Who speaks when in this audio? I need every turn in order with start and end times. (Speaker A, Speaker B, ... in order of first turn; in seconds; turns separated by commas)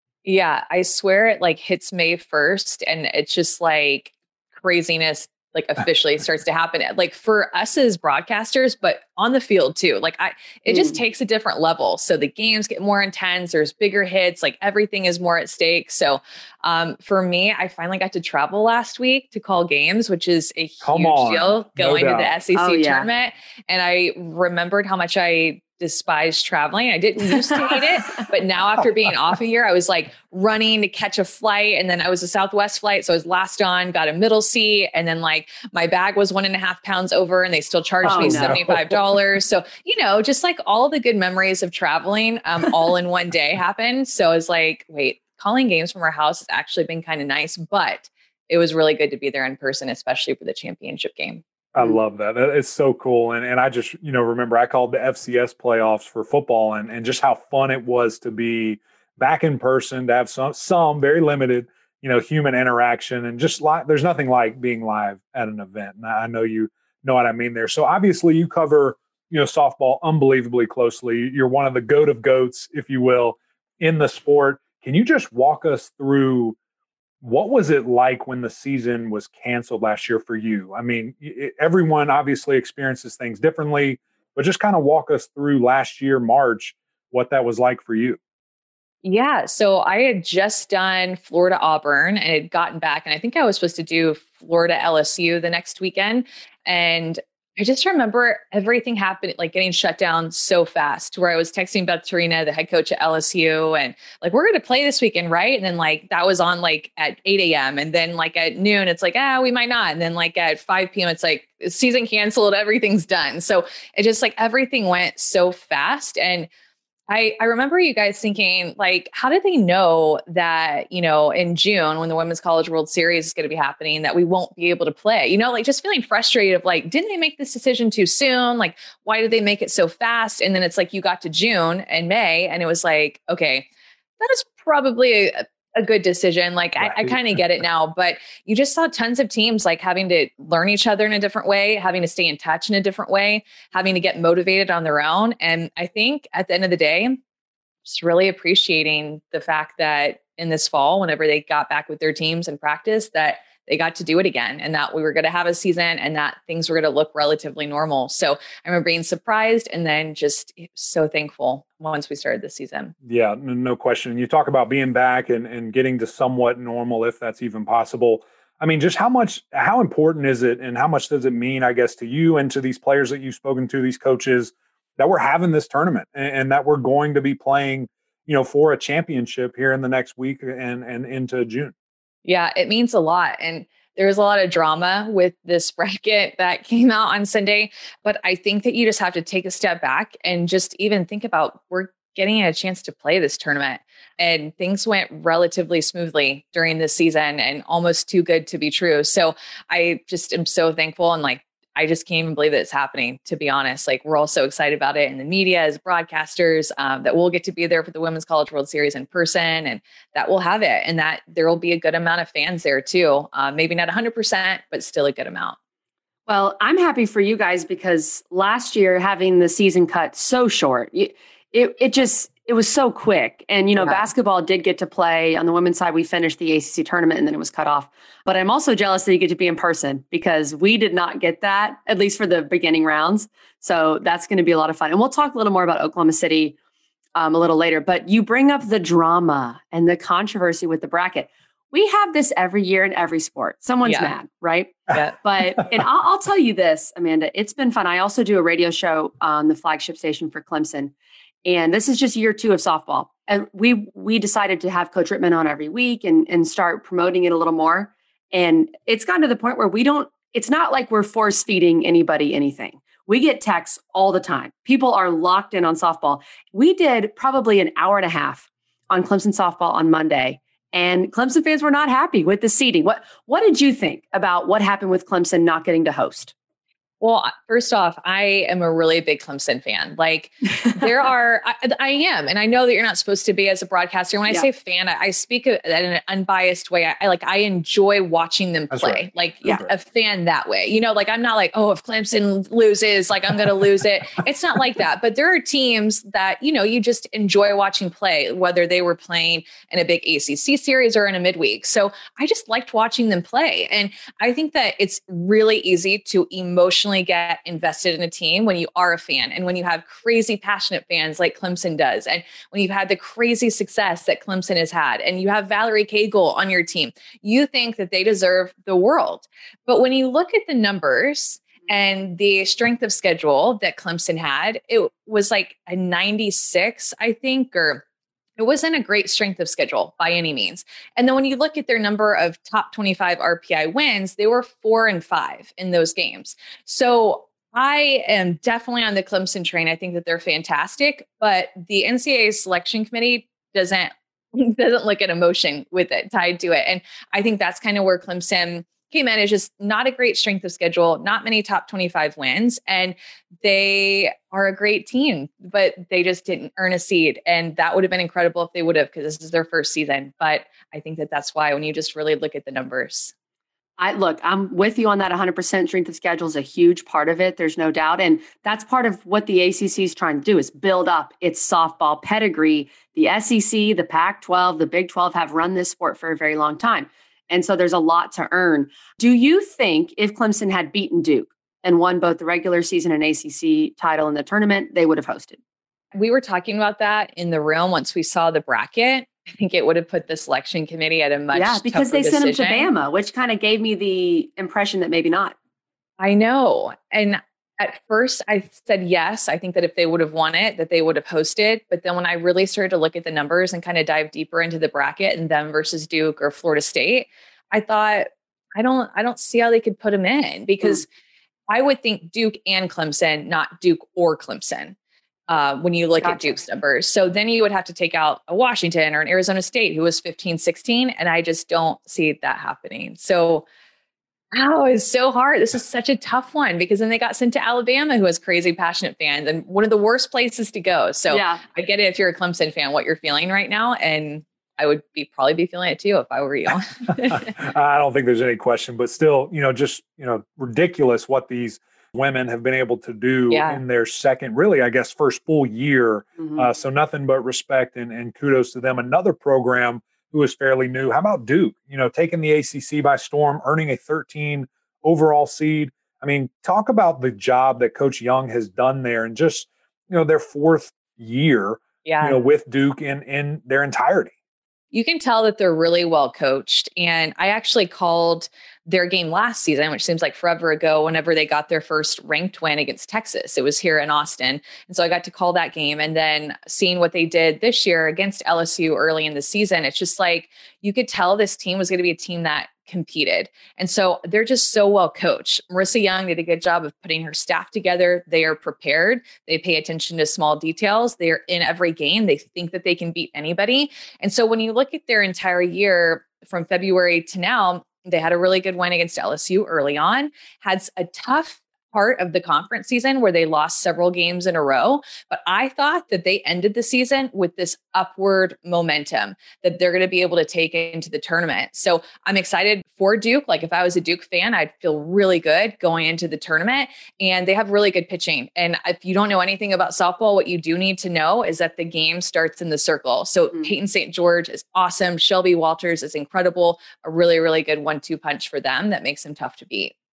Speaker A: 0.2-51.4, Speaker B: 10.7-11.0, Speaker C: 20.8-22.4, Speaker B: 22.5-23.1, Speaker B: 27.4-27.8, Speaker C: 38.0-39.0, Speaker B: 38.0-38.6, Speaker C: 51.7-76.6, Speaker C: 77.2-88.2, Speaker A: 89.0-116.5, Speaker A: 117.1-133.7, Speaker A: 134.2-147.2, Speaker C: 136.8-137.4, Speaker A: 147.8-162.9, Speaker C: 163.0-181.7, Speaker A: 182.2-215.6, Speaker B: 216.3-236.6, Speaker A: 223.8-224.1, Speaker B: 237.1-250.9, Speaker A: 243.8-244.1, Speaker C: 245.6-245.8, Speaker B: 251.4-276.3, Speaker A: 277.0-327.8, Speaker C: 288.7-289.7, Speaker A: 328.4-363.1, Speaker B: 363.8-385.4, Speaker A: 385.9-392.7, Speaker B: 391.3-395.3, Speaker A: 396.0-410.9, Speaker A: 411.5-414.8, Speaker A: 415.3-423.4, Speaker B: 416.0-416.4, Speaker A: 424.3-437.3, Speaker B: 431.1-431.4, Speaker C: 437.1-464.1, Speaker A: 443.3-443.6, Speaker B: 446.2-446.5, Speaker A: 461.8-462.2, Speaker A: 464.7-529.7